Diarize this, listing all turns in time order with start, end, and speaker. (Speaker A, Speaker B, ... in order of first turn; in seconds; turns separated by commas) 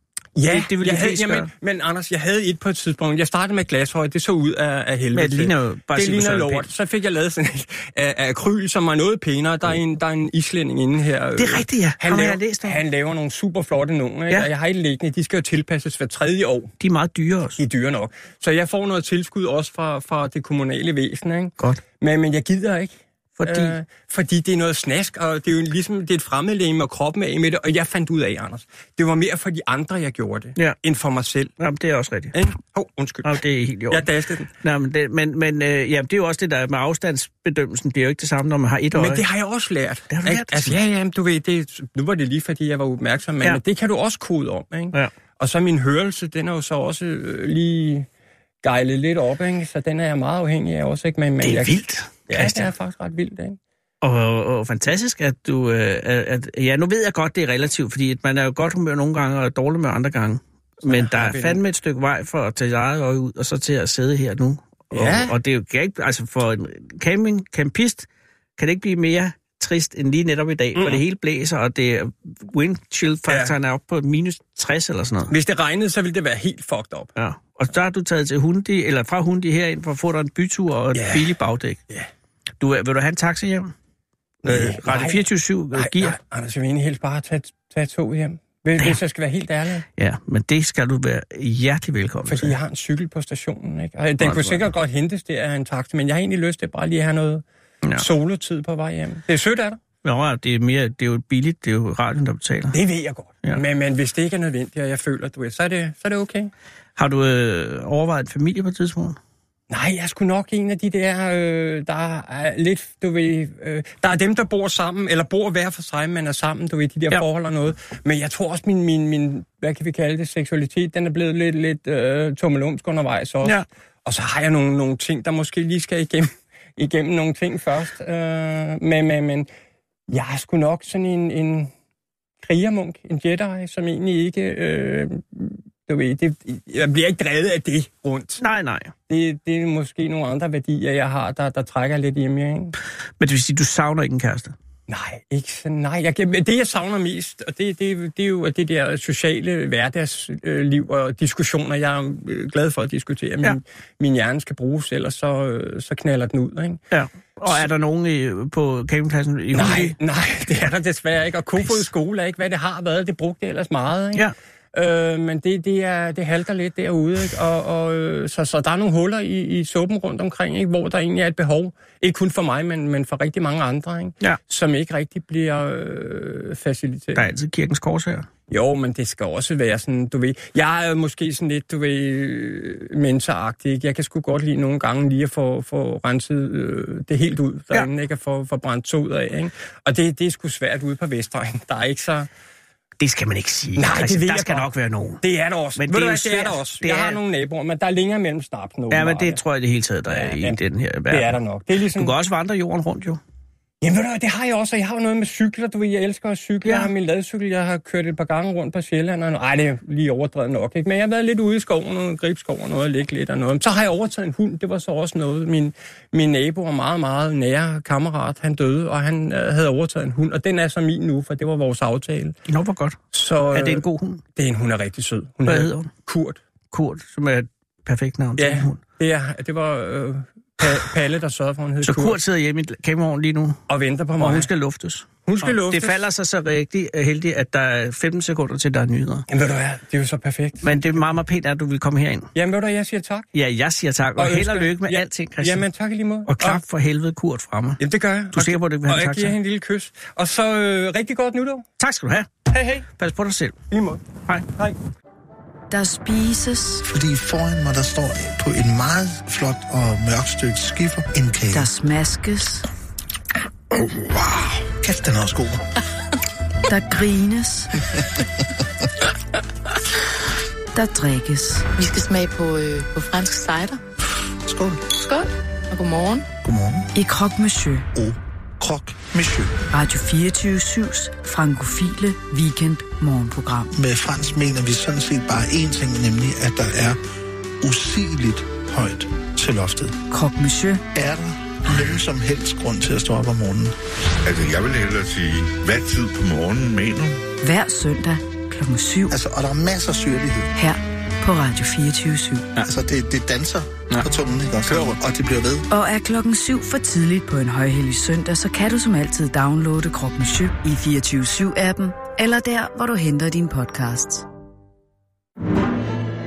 Speaker A: 0.3-16.7, Speaker B: 0.5-1.5, Speaker B: 5.1-6.7, Speaker B: 11.3-12.8, Speaker B: 16.8-17.6, Speaker A: 17.6-31.5, Speaker B: 23.4-23.8, Speaker B: 31.6-32.4, Speaker A: 32.3-34.5, Speaker B: 33.2-34.1, Speaker B: 34.6-39.2, Speaker A: 38.9-48.1, Speaker B: 40.1-40.8, Speaker A: 48.6-53.6, Speaker B: 51.4-52.7, Speaker B: 54.0-75.3, Speaker A: 60.8-61.6, Speaker A: 64.9-65.3, Speaker A: 70.8-71.0, Speaker A: 73.3-73.5, Speaker A: 75.3-77.1, Speaker B: 77.2-81.8, Speaker A: 80.9-81.3, Speaker B: 82.6-83.7, Speaker B: 84.4-86.2, Speaker A: 84.4-89.8, Speaker B: 90.0-92.5, Speaker A: 92.3-99.8, Speaker B: 94.2-94.6, Speaker B: 100.0-102.8, Speaker A: 102.7-106.5, Speaker B: 107.0-109.2, Speaker A: 109.7-129.5, Speaker A: 130.1-131.7, Speaker A: 132.4-138.4, Speaker B: 138.4-138.9, Speaker A: 139.1-142.7, Speaker B: 143.2-144.5, Speaker A: 144.9-156.8, Speaker B: 156.9-160.0, Speaker A: 159.5-177.2, Speaker B: 177.1-178.3, Speaker A: 178.5-192.3, Speaker B: 193.0-195.2, Speaker A: 193.8-194.7, Speaker A: 195.2-199.4, Speaker B: 195.8-197.2, Speaker B: 198.9-203.2, Speaker A: 200.1-200.6, Speaker A: 201.1-202.1, Speaker A: 203.8-222.3, Speaker B: 206.6-206.9, Speaker B: 222.5-223.0, Speaker A: 223.1-226.4, Speaker B: 223.5-224.2, Speaker B: 225.4-225.9, Speaker B: 226.7-228.8, Speaker A: 228.4-232.2, Speaker B: 231.8-233.6, Speaker A: 233.7-234.5, Speaker B: 234.2-239.3, Speaker A: 235.2-236.0, Speaker A: 239.3-241.0, Speaker B: 240.6-242.3, Speaker A: 242.3-243.3, Speaker B: 243.3-245.7, Speaker A: 244.2-246.6, Speaker B: 246.2-247.8, Speaker A: 247.8-251.6, Speaker B: 248.3-249.3, Speaker B: 251.8-253.6, Speaker A: 252.5-252.9, Speaker A: 253.7-254.0, Speaker C: 255.7-256.8, Speaker D: 256.9-261.7, Speaker C: 261.5-262.7, Speaker D: 263.7-265.6, Speaker C: 266.7-267.7, Speaker C: 270.7-271.7, Speaker E: 271.8-273.8, Speaker D: 274.4-274.9, Speaker E: 274.9-276.3, Speaker D: 276.4-276.9, Speaker C: 276.9-277.9, Speaker D: 277.9-279.5, Speaker C: 279.7-283.7, Speaker D: 283.7-287.0, Speaker D: 287.6-290.0, Speaker C: 290.1-290.8, Speaker D: 290.9-293.7, Speaker F: 294.2-297.2, Speaker C: 297.4-299.1, Speaker D: 299.1-300.5, Speaker C: 300.6-302.5, Speaker D: 302.6-305.7, Speaker C: 305.7-314.2